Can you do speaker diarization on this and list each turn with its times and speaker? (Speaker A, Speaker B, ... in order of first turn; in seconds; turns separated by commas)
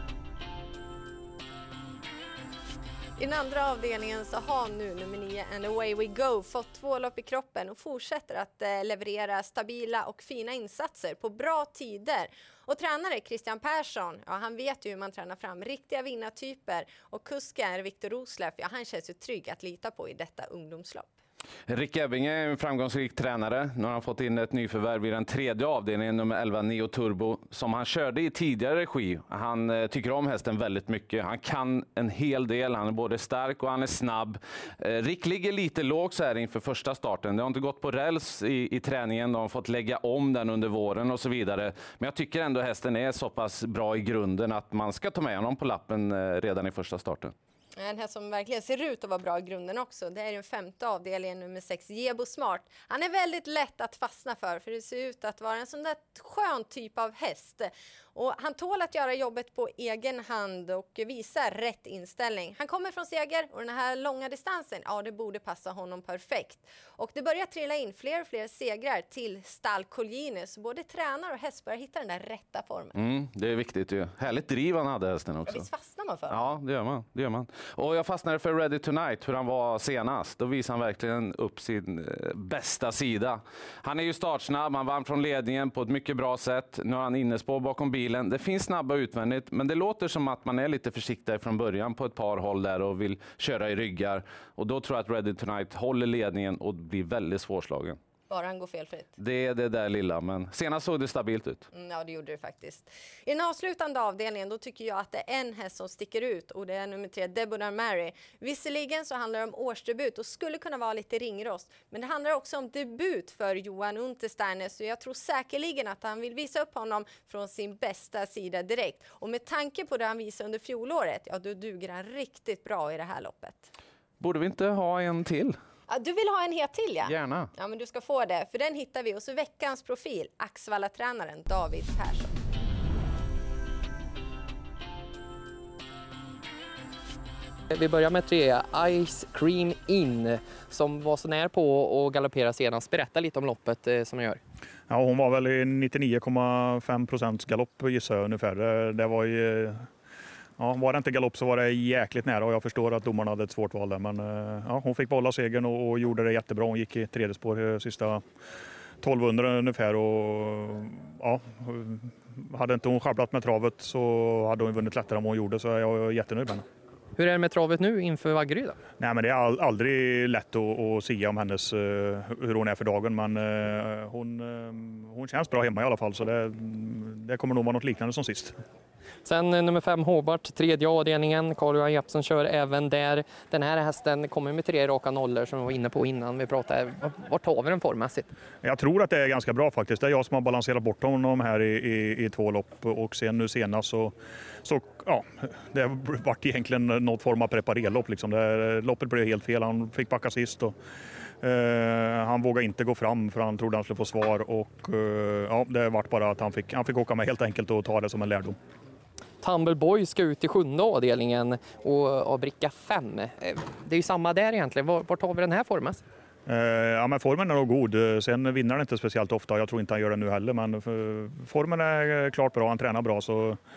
Speaker A: 3.2-21.1, Speaker B: 21.7-47.3, Speaker A: 47.8-73.0, Speaker B: 72.9-75.7, Speaker A: 75.5-76.6, Speaker B: 76.3-98.0, Speaker A: 98.3-99.1, Speaker B: 99.2-101.7, Speaker A: 101.7-123.7, Speaker B: 124.2-125.5, Speaker A: 125.9-132.3, Speaker B: 127.0-127.5, Speaker C: 137.7-144.4, Speaker D: 144.9-149.9, Speaker D: 150.6-158.2, Speaker D: 159.0-166.6, Speaker C: 167.2-168.8, Speaker D: 169.0-178.6, Speaker C: 179.2-188.3, Speaker D: 188.6-200.7, Speaker D: 201.4-208.6, Speaker C: 209.4-216.0, Speaker D: 216.5-223.6